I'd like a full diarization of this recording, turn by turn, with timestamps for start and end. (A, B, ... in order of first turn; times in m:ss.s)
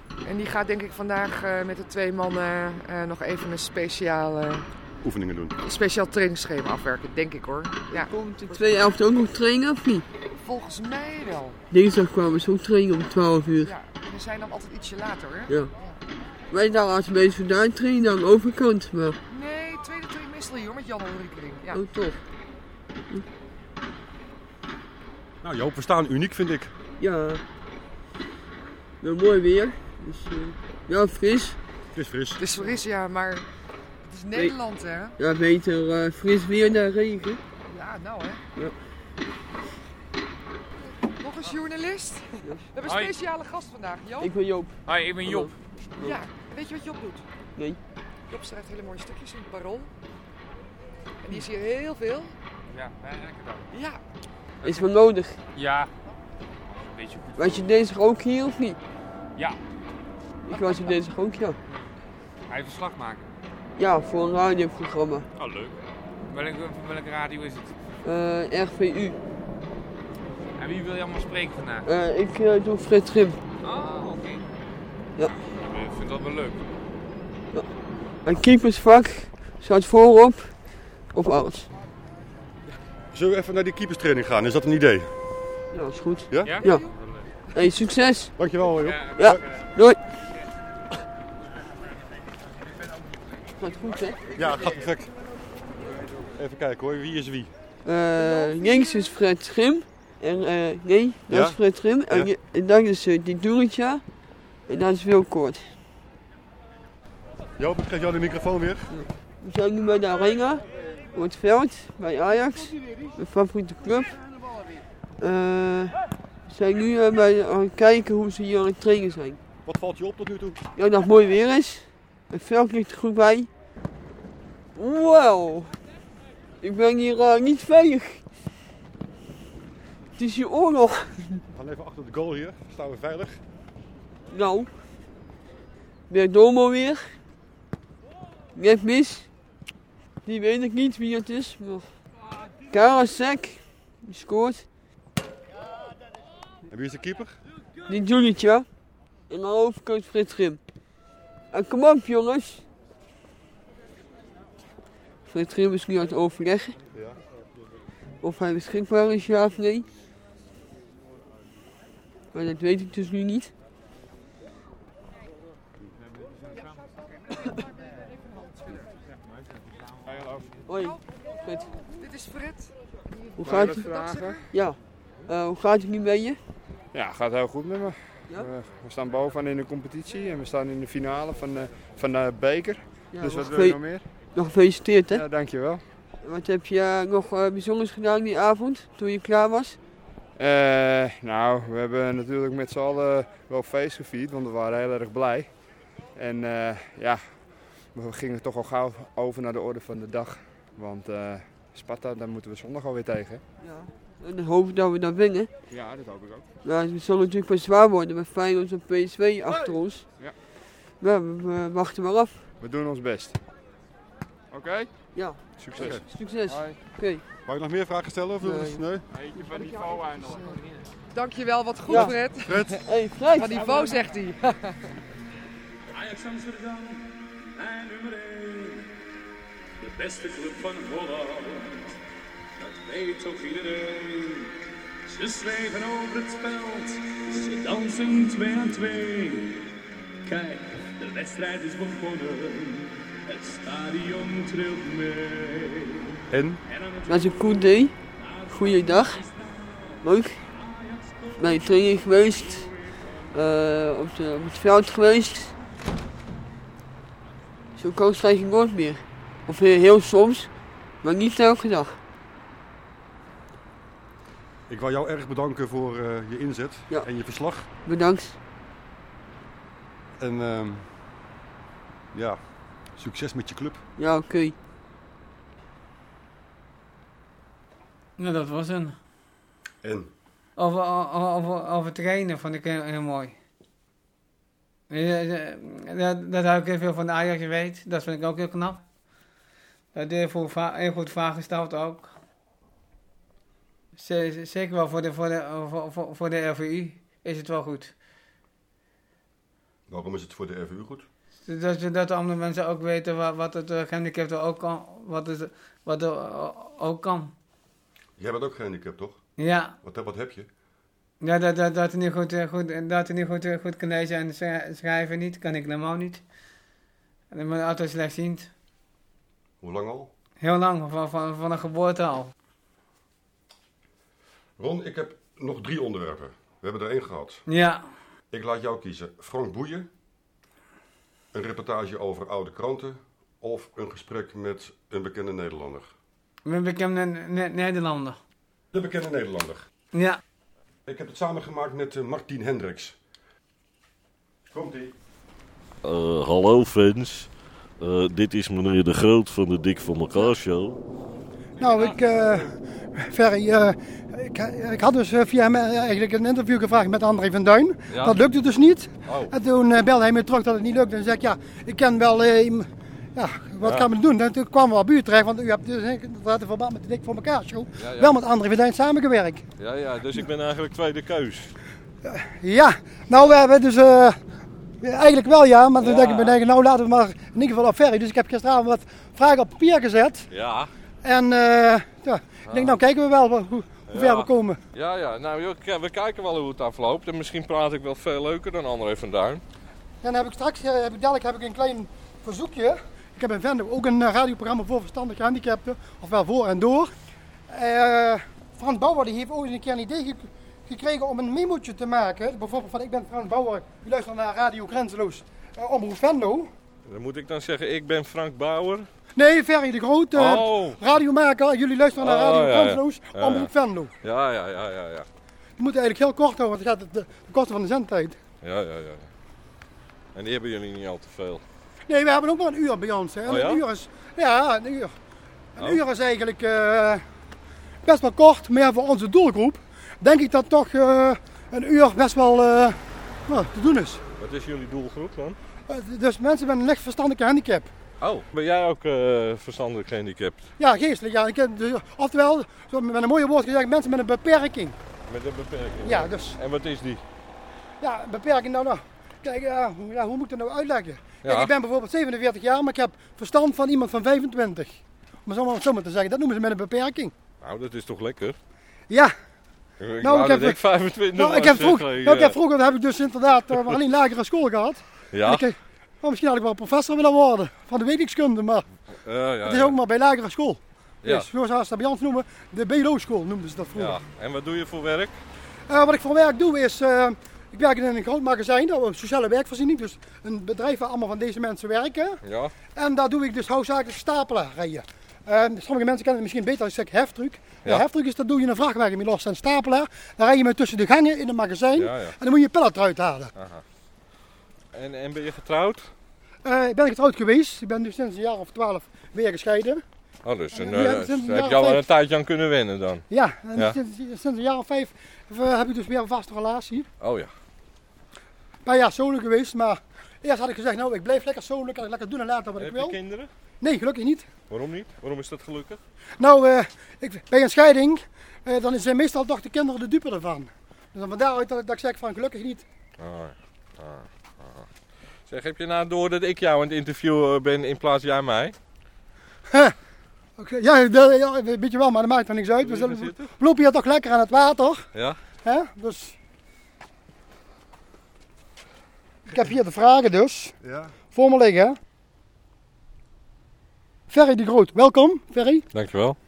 0:00.2-0:04.6 A
0:05.0-0:05.6 B
0:05.6-0:08.9 A
0:07.9-0:10.0 C
0:10.4-0:11.6 A
0:11.7-0:13.7 C
0:13.6-0:16.0 A
0:16.5-0:19.2 C
0:19.3-0:21.8 A
0:21.7-0:22.2 C
0:25.4-0:26.7 B
0:27.0-0:27.4 C
0:29.0-0:31.6 C
0:31.9-0:32.5 B
0:32.4-0:33.4 A
0:34.0-0:35.2 A
0:35.2-0:37.4 C
0:37.7-0:38.4 A
0:41.2-0:44.3 A
0:42.9-0:43.1 D
0:44.2-0:46.2 C
0:44.9-0:45.5 D
0:46.0-0:47.2 A
0:48.3-0:49.9 A
0:51.2-0:52.3 A
0:52.7-0:53.7 D
0:53.7-0:54.0 A
0:54.6-0:54.9 D
0:54.6-0:55.4 C
0:55.5-0:55.9 D
0:56.8-0:57.7 D
0:57.4-0:58.8 C
1:00.4-1:01.6 C
1:02.5-1:03.3 D
1:03.8-1:05.3 C
1:05.4-1:05.8 D
1:06.3-1:07.8 D
1:08.0-1:09.2 C
1:10.6-1:11.9 D
1:11.9-1:13.4 C
1:13.6-1:14.4 D
1:15.6-1:16.7 D
1:18.2-1:21.7 C
1:23.1-1:25.1 B
1:25.7-1:26.9 C
1:26.3-1:26.6 B
1:26.4-1:27.3 D
1:27.6-1:28.3 C
1:28.4-1:29.4 B
1:28.8-1:29.5 D
1:29.1-1:30.0 C
1:33.6-1:34.4 C
1:34.4-1:35.1 B
1:36.4-1:37.5 B
1:37.8-1:44.0 C
1:41.3-1:42.3 B
1:44.7-1:45.6 C
1:47.6-1:48.9 B
1:48.9-1:54.2 C
1:55.2-1:59.4 C
1:59.6-2:00.6 B
2:00.8-2:03.5 C
2:04.8-2:05.8 C
2:06.6-2:08.2 C
2:10.2-2:11.4 C
2:11.5-2:13.4 B
2:14.3-2:14.7 C
2:16.1-2:17.1 C
2:18.6-2:19.3 C
2:20.2-2:21.9 C
2:22.7-2:24.7 C
2:26.7-2:27.4 B
2:27.9-2:28.7 C
2:29.3-2:30.6 C
2:31.5-2:32.6 C
2:35.3-2:36.8 C
2:38.2-2:39.9 C
2:42.3-2:43.5 C
2:50.0-2:50.6 E
2:50.7-2:51.7 C
2:52.0-2:54.4 A
2:53.4-2:56.4 C
2:53.4-2:54.4 E
2:56.9-3:04.2 E
3:03.1-3:05.2 C
3:05.1-3:05.8 E
3:06.2-3:09.8 C
3:10.4-3:15.6 E
3:16.2-3:23.4 E
3:23.6-3:25.5 C
3:25.7-3:26.5 E
3:26.6-3:30.2 C
3:29.5-3:30.4 E
3:31.0-3:32.5 C
3:32.6-3:33.4 E
3:34.5-3:36.8 E
3:35.1-3:37.2 C
3:35.7-3:36.1 B
3:37.5-3:39.1 B
3:38.4-3:38.8 C
3:39.2-3:40.4 E
3:39.4-3:40.6 A
3:39.5-3:40.8 D
3:41.1-3:42.7 A
3:41.9-3:42.3 C
3:42.5-3:42.8 B
3:42.8-3:43.8 C
3:43.3-3:44.7 A
3:45.9-3:48.9 F
3:49.8-3:51.9 F
3:52.6-3:59.7 F
4:00.3-4:07.6 F
4:06.3-4:06.6 B
4:07.1-4:08.0 C
4:08.2-4:10.0 F
4:08.5-4:09.2 C
4:10.0-4:10.4 C
4:10.5-4:11.7 F
4:11.4-4:12.7 C
4:13.3-4:15.5 C
4:17.8-4:20.5 C
4:21.0-4:22.0 C
4:24.7-4:27.7 B
4:27.8-4:28.4 C
4:30.2-4:30.9 B
4:32.1-4:32.4 B
4:33.0-4:33.8 B
4:34.0-4:34.6 C
4:38.2-4:39.0 G
4:39.8-4:40.1 B
4:40.6-4:43.4 G
4:44.9-4:48.8 G
4:49.9-4:52.1 G
4:54.0-4:57.9 G
4:59.9-5:01.1 B
5:01.5-5:07.3 G
5:08.2-5:09.2 B
5:09.4-5:09.8 G
5:09.8-5:10.5 B
5:11.2-5:16.2 G
5:17.3-5:18.5 G
5:19.6-5:20.1 B
5:20.4-5:22.3 G
5:24.6-5:27.4 B
5:27.5-5:27.9 G
5:28.3-5:29.9 B
5:31.3-5:35.9 B
5:36.5-5:38.2 G
5:38.7-5:39.6 B
5:39.9-5:40.2 G
5:40.9-5:43.0 B
5:44.5-5:44.9 B
5:45.8-5:50.8 H
5:51.6-6:09.4 I
5:57.9-5:58.2 H
5:59.1-5:59.3 H
6:03.6-6:03.9 H
6:07.8-6:08.1 H
6:09.6-6:11.5 H
6:12.0-6:14.2 I
6:14.8-6:20.3 I
6:15.8-6:16.4 H
6:20.3-6:20.7 H
6:21.0-6:24.6 I
6:22.5-6:22.8 H
6:23.9-6:29.4 H
6:30.0-6:36.9 I
6:37.5-6:46.5 I
6:46.9-6:48.9 H
6:49.2-6:53.9 I
6:50.1-6:50.8 H
6:52.0-6:53.5 H
6:54.0-6:55.1 H
6:55.6-6:58.2 I
6:58.4-6:59.1 H
7:00.2-7:01.4 H
7:01.9-7:04.9 I
7:03.3-7:03.6 H
7:05.6-7:07.0 I
7:07.8-7:14.0 I
7:14.2-7:15.4 H
7:15.7-7:17.7 I
7:18.0-7:20.5 H
7:20.6-7:24.8 I
7:25.1-7:27.0 H
7:25.8-7:26.4 I
7:27.8-7:37.1 I
7:31.2-7:31.5 H
7:37.4-7:38.4 H
7:39.8-7:42.4 H
7:40.0-7:48.7 I
7:45.1-7:45.5 H
7:49.0-7:49.8 H
7:49.4-7:54.0 I
7:51.0-7:51.3 H
7:53.8-7:55.1 H
7:55.7-8:02.2 I
8:02.2-8:02.5 H
8:02.8-8:13.3 I
8:11.8-8:12.2 H
8:13.4-8:13.6 H
8:14.7-8:15.9 H
8:16.4-8:19.8 I
8:20.2-8:23.8 H
8:20.5-8:21.8 I
8:23.1-8:26.9 I
8:27.0-8:27.3 H
8:28.6-8:33.0 I
8:32.6-8:33.3 H
8:33.6-8:34.3 I
8:34.5-8:35.8 H
8:36.2-8:42.6 I
8:43.0-8:44.7 H
8:45.3-8:48.6 H
8:50.4-8:54.9 I
8:52.6-8:53.3 H
8:54.9-8:55.2 H
8:55.4-8:56.2 I
8:59.3-9:00.6 I
9:00.6-9:00.9 B
9:01.1-9:01.8 I
9:04.1-9:05.7 I
9:05.7-9:06.2 H